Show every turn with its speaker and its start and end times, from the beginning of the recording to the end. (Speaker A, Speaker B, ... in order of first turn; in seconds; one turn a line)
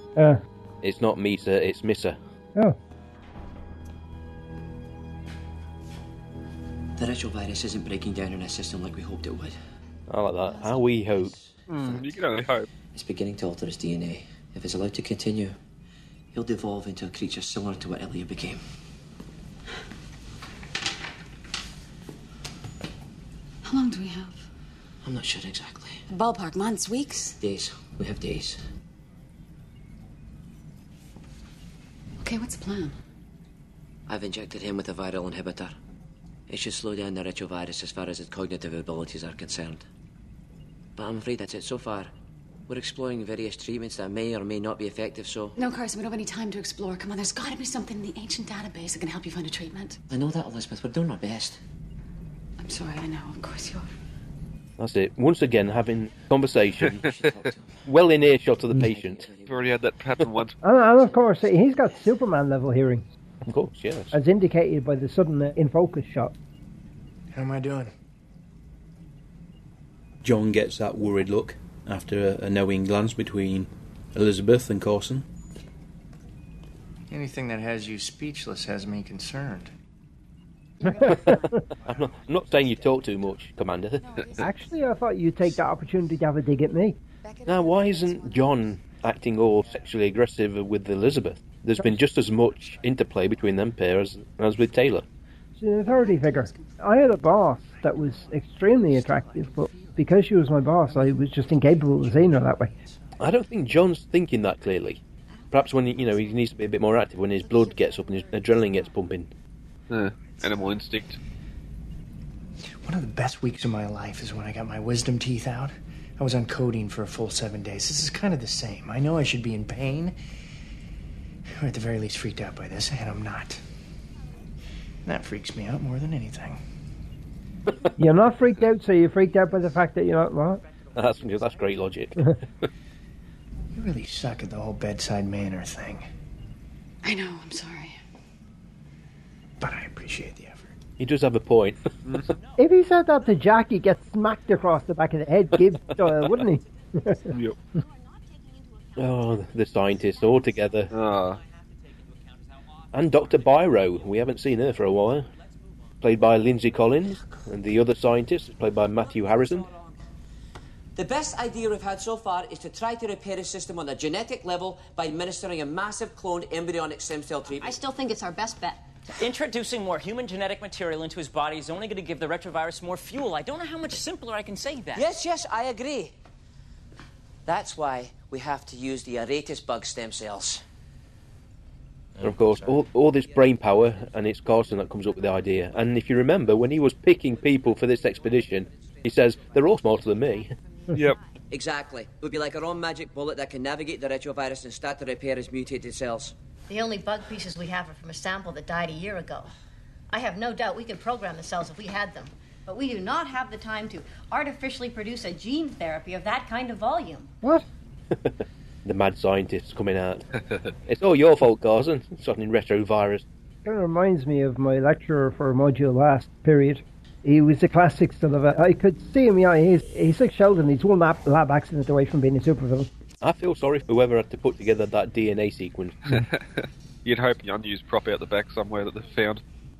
Speaker A: 0.1-0.4
Speaker B: 0.8-2.2
Speaker C: 7.0-9.6
Speaker B: 10.1-11.3
Speaker C: 10.5-12.2
Speaker D: 11.7-12.7
Speaker C: 12.9-15.6
Speaker C: 16.3-18.6
Speaker E: 23.6-24.4
Speaker C: 25.0-26.0
Speaker E: 26.1-27.4
Speaker C: 27.4-28.6
Speaker E: 32.2-33.0
Speaker C: 34.1-35.8
Speaker C: 36.5-39.9
Speaker C: 41.0-42.1
Speaker C: 42.7-45.5
Speaker E: 45.6-50.0
Speaker C: 50.1-51.6
Speaker E: 52.6-53.9
Speaker B: 54.8-56.9
Speaker C: 56.7-57.8
Speaker B: 57.8-59.3
Speaker C: 58.8-59.8
Speaker D: 59.5-60.5
Speaker A: 60.6-63.0
Speaker C: 60.9-61.5
Speaker B: 63.5-64.1
Speaker A: 64.1-66.3
Speaker F: 67.3-67.9
Speaker G: 70.2-75.3
Speaker F: 77.1-79.7
Speaker E: 80.8-81.7
Speaker A: 81.0-81.6
Speaker B: 81.0-84.0
Speaker E: 82.6-83.0
Speaker E: 84.0-84.5
Speaker A: 84.4-87.0
Speaker E: 87.2-88.7
Speaker B: 87.5-95.0
Speaker A: 95.6-102.7
Speaker E: 95.8-96.8
Speaker F: 97.8-100.2
Speaker F: 100.8-103.1
Speaker B: 103.2-105.0
Speaker B: 105.5-109.3
Speaker D: 109.9-111.2
Speaker F: 112.8-120.1
Speaker F: 121.6-123.6
Speaker F: 125.0-126.6
Speaker A: 128.0-130.6
Speaker B: 130.9-132.6
Speaker F: 133.7-136.0
Speaker E: 137.0-138.0
Speaker F: 139.6-140.8
Speaker B: 141.0-141.9
Speaker A: 142.6-147.3
Speaker D: 147.3-147.6
Speaker B: 148.9-150.9
Speaker D: 150.9-151.4
Speaker B: 152.9-155.3
Speaker B: 156.0-159.7
Speaker C: 160.9-167.8
Speaker H: 167.6-168.8
Speaker I: 169.2-175.1
Speaker C: 174.9-176.1
Speaker C: 177.4-180.6
Speaker C: 182.2-182.7
Speaker B: 182.2-190.5
Speaker D: 190.9-191.2
Speaker C: 191.5-196.3
Speaker H: 196.7-199.5
Speaker H: 200.1-207.3
Speaker B: 208.1-210.3
Speaker B: 210.8-213.2
Speaker A: 213.6-222.9
Speaker B: 223.2-226.0
Speaker D: 226.1-229.4